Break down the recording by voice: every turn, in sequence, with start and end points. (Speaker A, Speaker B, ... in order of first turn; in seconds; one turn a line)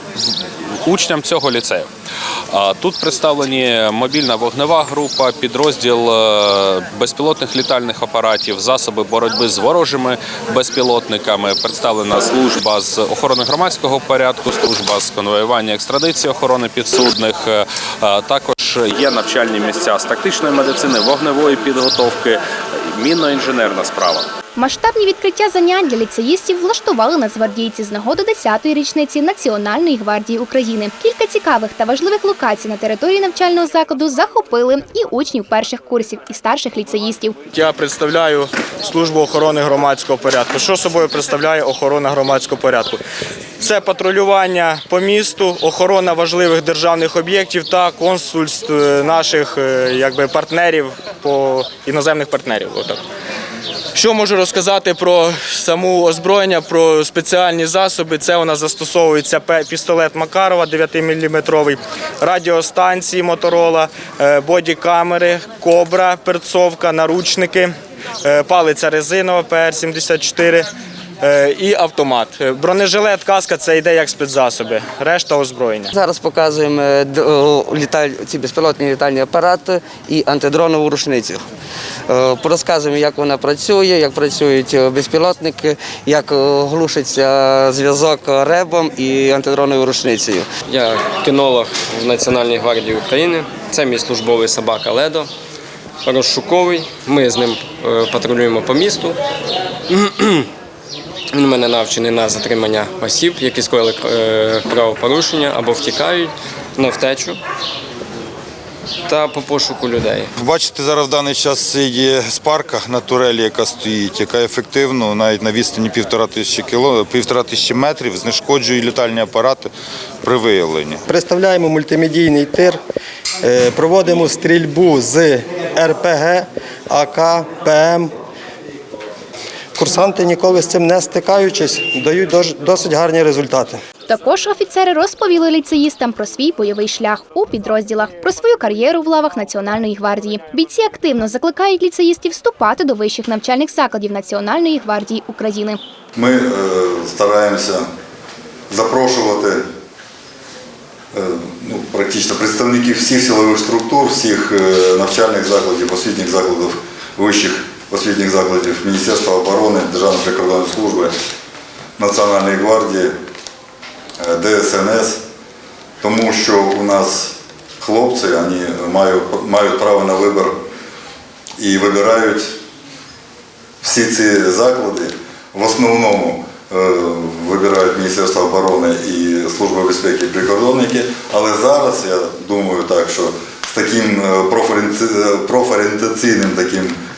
Speaker A: 0.8-1.9
Speaker A: 2.5-22.4
Speaker A: 22.9-24.3
Speaker B: 24.6-37.4
Speaker C: 37.5-43.0
Speaker C: 43.6-53.0
Speaker C: 54.0-67.7
Speaker C: 68.3-70.7
Speaker C: 71.2-75.9
Speaker D: 75.9-81.5
Speaker D: 82.1-90.5
Speaker E: 90.7-95.3
Speaker E: 96.0-99.2
Speaker E: 99.9-100.5
Speaker E: 101.3-107.4
Speaker E: 109.1-110.3
Speaker F: 110.4-119.7
Speaker F: 120.2-121.0
Speaker G: 121.1-122.8
Speaker G: 123.4-128.1
Speaker G: 129.8-133.8
Speaker B: 134.1-145.8
Speaker H: 146.2-147.8
Speaker H: 148.7-149.6
Speaker H: 151.1-161.1
Speaker H: 162.0-163.1
Speaker H: 164.2-165.2
Speaker H: 166.0-170.6
Speaker H: 171.6-172.5
Speaker H: 173.8-187.0